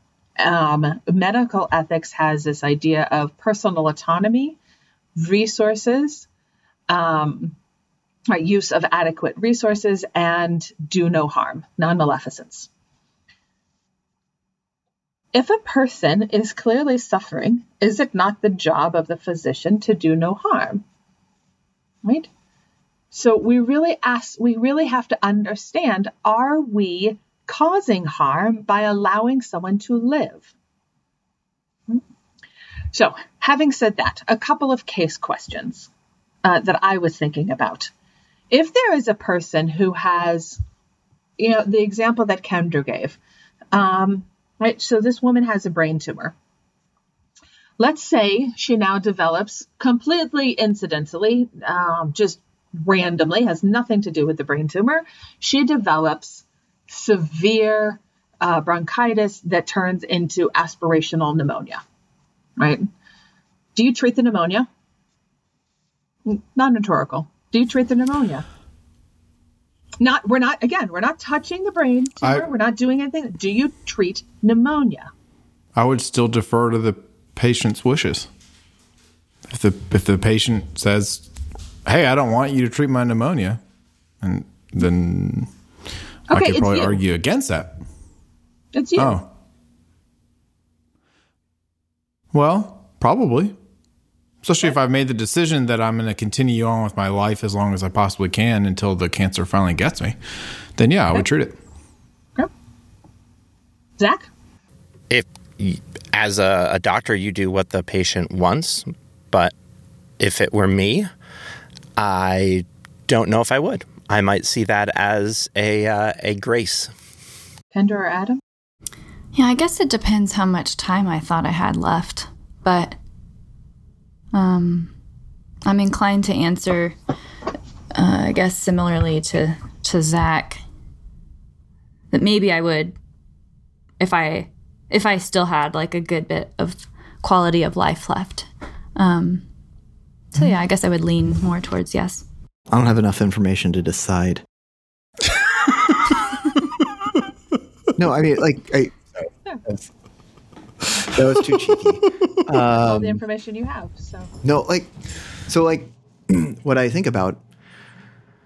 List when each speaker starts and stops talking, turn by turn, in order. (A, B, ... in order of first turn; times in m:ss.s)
0:00.4-0:04.6 A
0:05.2-0:06.3 A
0:06.9-0:07.5 A
0:08.3-0:12.7 A
0:15.3-0:20.8 A
0:22.0-0:22.3 A
0:23.1-0:30.5 A
0:32.9-0:35.9 A
0:36.4-0:37.9 A
0:38.5-0:40.6 A
0:41.4-0:43.2 A
0:43.7-0:46.3 A
0:47.8-1:01.8 A
1:02.6-1:02.9 A
1:03.7-1:04.7 A
1:06.2-1:08.4 A
1:10.0-1:15.1 A
1:12.2-1:12.4 B
1:15.7-1:18.3 B
1:19.5-1:21.3 B
1:21.8-1:23.6 B
1:24.2-1:25.5 B
1:26.3-1:27.8 B
1:26.3-1:27.0 A
1:28.7-1:29.2 A
1:29.0-1:29.2 B
1:32.3-1:33.6 B
1:34.4-1:40.2 B
1:40.8-1:41.6 B
1:44.0-1:44.3 A
1:45.1-1:49.5 C
1:50.2-1:51.1 C
1:52.0-1:56.9 C
1:57.7-1:58.4 A
1:59.3-2:03.0 D
2:04.3-2:04.9 D
2:05.6-2:06.9 D
2:07.9-2:10.6 D
2:12.1-2:13.0 D
2:14.0-2:19.4 D
2:20.3-2:22.2 D
2:22.7-2:24.4 E
2:28.0-2:29.9 E
2:31.0-2:33.2 E
2:32.7-2:34.3 A
2:34.4-2:34.9 E
2:35.5-2:37.4 E